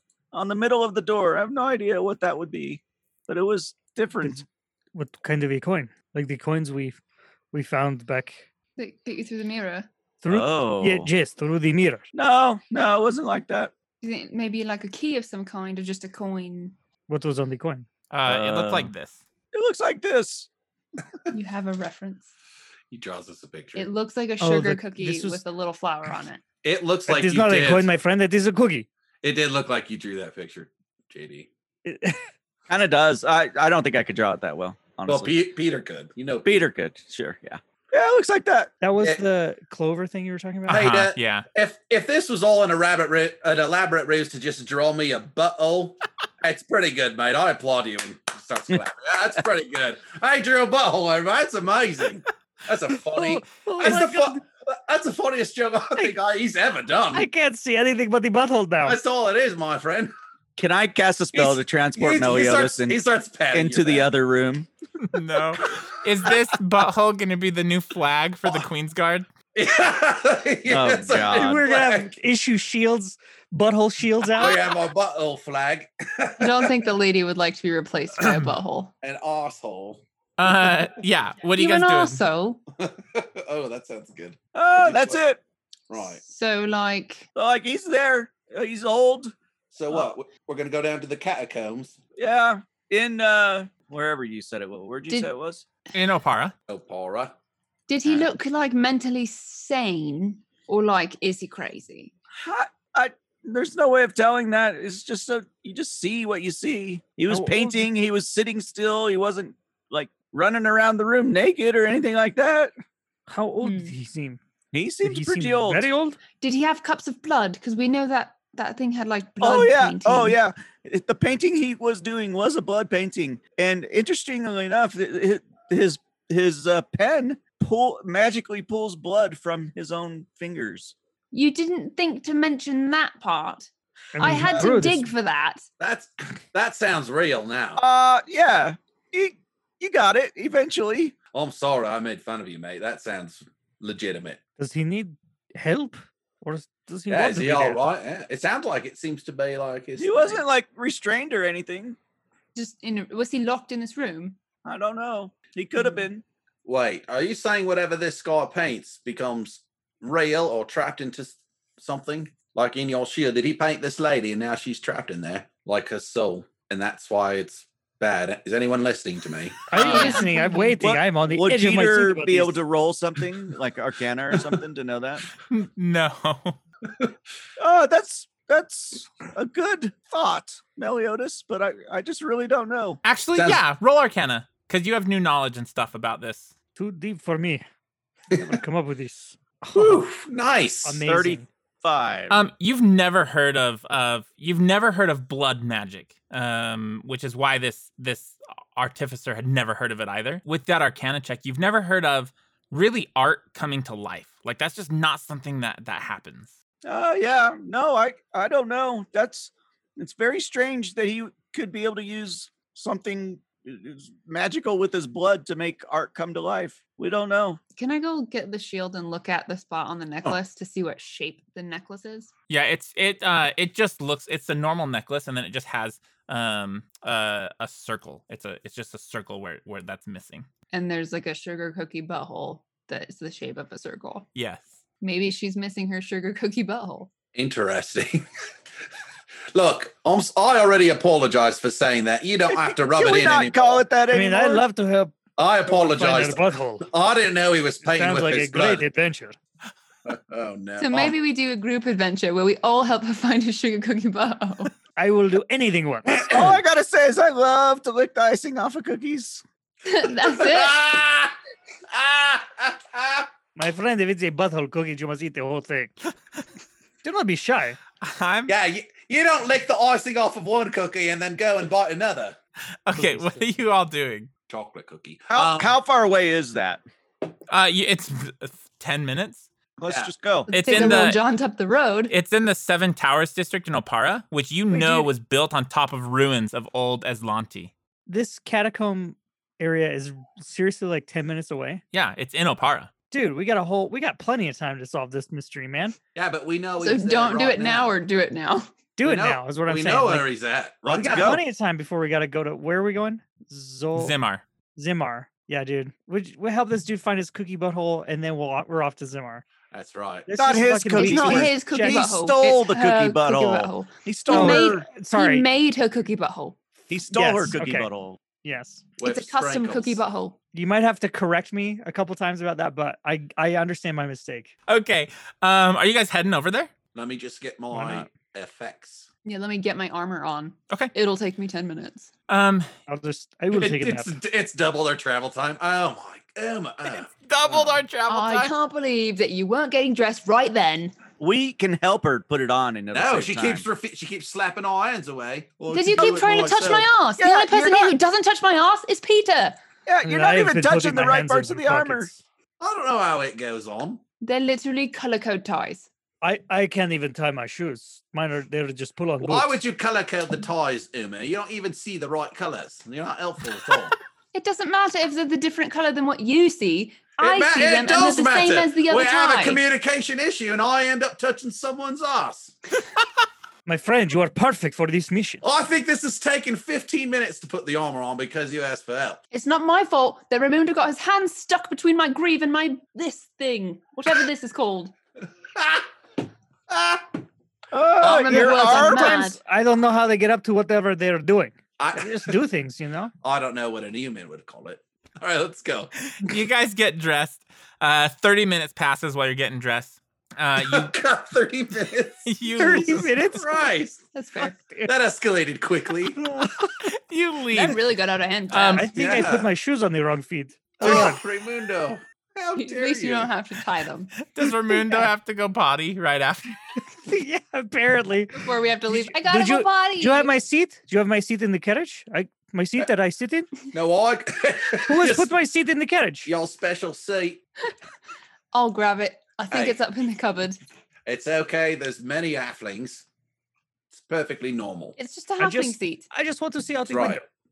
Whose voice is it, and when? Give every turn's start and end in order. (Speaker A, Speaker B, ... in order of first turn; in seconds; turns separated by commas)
Speaker A: 0.3-4.4, Speaker B: 4.2-7.0, Speaker B: 7.5-8.4, Speaker C: 8.8-9.9, Speaker B: 10.2-12.0, Speaker A: 10.3-11.1, Speaker A: 12.1-13.7, Speaker C: 14.0-16.7, Speaker B: 17.1-17.9, Speaker D: 18.1-19.2, Speaker A: 18.2-18.9, Speaker A: 19.5-20.5, Speaker C: 21.3-22.3, Speaker E: 22.9-23.9, Speaker C: 23.8-26.4, Speaker B: 24.4-25.4, Speaker E: 26.6-27.9, Speaker B: 27.1-28.9, Speaker E: 29.2-31.5, Speaker B: 31.8-32.3, Speaker A: 32.7-35.4, Speaker E: 35.1-36.6, Speaker A: 36.4-38.7, Speaker B: 38.8-40.8, Speaker D: 40.7-41.5, Speaker E: 40.7-57.3, Speaker B: 53.1-54.4, Speaker B: 57.1-59.0, Speaker E: 58.8-60.1, Speaker A: 60.6-63.0, Speaker E: 61.3-64.1, Speaker A: 63.5-64.7, Speaker D: 65.1-69.2, Speaker E: 69.5-72.1, Speaker A: 70.7-71.6, Speaker B: 71.3-74.7, Speaker E: 74.3-76.8, Speaker C: 76.4-78.9, Speaker E: 79.0-80.7, Speaker D: 80.4-82.2, Speaker C: 81.5-82.6, Speaker E: 82.8-85.2, Speaker A: 84.5-85.4, Speaker E: 85.9-86.2, Speaker C: 86.2-87.2, Speaker A: 87.3-89.3, Speaker E: 89.7-92.0, Speaker A: 92.2-95.6, Speaker D: 95.9-96.5, Speaker E: 96.7-97.3, Speaker C: 97.9-102.1, Speaker E: 98.0-98.3, Speaker A: 102.3-112.7, Speaker B: 107.3-107.9, Speaker B: 113.3-114.4, Speaker C: 113.6-113.9, Speaker A: 114.7-115.9, Speaker B: 115.0-116.2, Speaker C: 116.4-120.4, Speaker A: 119.4-130.9, Speaker C: 131.3-135.6, Speaker B: 134.1-135.1, Speaker E: 135.8-137.8, Speaker A: 137.8-141.1, Speaker E: 141.3-144.4, Speaker B: 144.6-147.8, Speaker E: 147.1-150.4, Speaker A: 150.0-152.0, Speaker C: 152.5-154.4, Speaker A: 154.6-156.2, Speaker E: 156.6-170.0, Speaker B: 169.7-172.6, Speaker C: 169.8-170.8, Speaker D: 169.8-170.2, Speaker A: 170.8-175.2, Speaker D: 175.5-176.6, Speaker A: 177.6-183.0, Speaker D: 183.0-186.5, Speaker E: 183.3-183.6, Speaker B: 186.8-187.6, Speaker B: 188.3-190.1, Speaker E: 189.7-191.0, Speaker B: 190.8-191.5, Speaker A: 191.0-192.4, Speaker D: 192.3-206.5, Speaker A: 206.8-217.6, Speaker C: 217.8-222.3, Speaker D: 222.5-230.4, Speaker C: 230.7-234.2, Speaker D: 234.3-234.7, Speaker C: 235.0-237.1, Speaker E: 237.3-238.2, Speaker E: 239.5-243.8, Speaker A: 242.5-244.6, Speaker B: 244.1-245.1, Speaker E: 245.4-248.8, Speaker B: 245.7-246.8, Speaker B: 247.8-249.3, Speaker E: 250.1-251.2, Speaker C: 250.8-254.7, Speaker B: 254.9-256.2, Speaker E: 256.1-256.5, Speaker A: 256.2-259.4, Speaker C: 259.8-260.8, Speaker E: 260.2-261.4, Speaker E: 261.9-263.3, Speaker B: 263.6-265.9, Speaker B: 267.0-267.8, Speaker D: 268.0-268.5, Speaker E: 268.5-272.4, Speaker D: 272.9-274.3, Speaker B: 272.9-273.5, Speaker E: 274.5-275.7, Speaker A: 275.3-276.8, Speaker D: 277.5-279.5, Speaker A: 279.8-280.5, Speaker C: 280.5-282.1, Speaker D: 280.5-281.2, Speaker D: 282.1-287.7, Speaker B: 284.7-285.1, Speaker B: 288.1-291.8, Speaker D: 291.9-292.9, Speaker B: 293.1-296.0, Speaker E: 296.1-297.9, Speaker C: 296.8-298.7, Speaker B: 299.0-300.3, Speaker E: 299.0-301.4, Speaker A: 300.8-301.4, Speaker B: 300.9-304.1, Speaker D: 303.9-304.4, Speaker B: 304.8-309.4, Speaker E: 309.7-310.3, Speaker B: 310.3-312.1, Speaker A: 310.4-314.9, Speaker C: 310.9-316.6, Speaker B: 314.3-315.4, Speaker A: 316.9-318.2, Speaker B: 317.1-317.9, Speaker B: 318.4-318.8, Speaker E: 319.0-320.0, Speaker C: 319.0-320.4, Speaker B: 320.5-324.5, Speaker D: 324.7-326.7, Speaker E: 326.9-329.1, Speaker B: 327.7-328.1, Speaker C: 329.2-332.1, Speaker D: 332.3-332.7, Speaker B: 332.9-334.1, Speaker E: 333.5-337.8, Speaker D: 336.9-338.5, Speaker C: 338.1-340.9, Speaker A: 341.2-343.6, Speaker E: 342.9-346.9, Speaker C: 345.7-349.6, Speaker A: 345.7-347.9, Speaker A: 349.9-352.1, Speaker B: 350.0-352.2, Speaker E: 352.6-354.0, Speaker C: 354.2-355.9, Speaker B: 356.2-359.6, Speaker E: 359.2-364.0, Speaker C: 364.3-369.6, Speaker E: 367.2-372.6, Speaker B: 373.6-375.4, Speaker E: 375.4-379.2, Speaker C: 379.3-384.9, Speaker E: 385.5-385.9, Speaker E: 386.7-387.1, Speaker A: 387.7-389.2, Speaker C: 388.0-389.4, Speaker E: 388.0-388.4, Speaker B: 388.3-393.1, Speaker E: 391.8-392.4, Speaker E: 393.2-395.9, Speaker D: 396.1-400.9, Speaker E: 400.6-404.1, Speaker D: 402.2-403.2, Speaker B: 402.6-403.7, Speaker C: 404.1-404.6, Speaker B: 404.6-404.9, Speaker E: 404.8-406.3, Speaker B: 406.2-406.5, Speaker D: 406.8-407.8, Speaker C: 407.5-408.9, Speaker D: 408.5-408.9, Speaker B: 408.7-411.2, Speaker E: 408.9-409.5, Speaker E: 410.8-413.3, Speaker C: 412.6-414.2, Speaker D: 414.2-416.6, Speaker B: 417.0-423.5, Speaker C: 418.4-420.3, Speaker E: 423.7-425.3, Speaker B: 424.9-426.3, Speaker E: 426.2-427.4, Speaker C: 428.5-430.6, Speaker E: 429.5-429.8, Speaker E: 431.1-433.0, Speaker E: 433.9-435.0, Speaker C: 435.0-436.1, Speaker B: 435.4-437.2, Speaker E: 436.9-437.2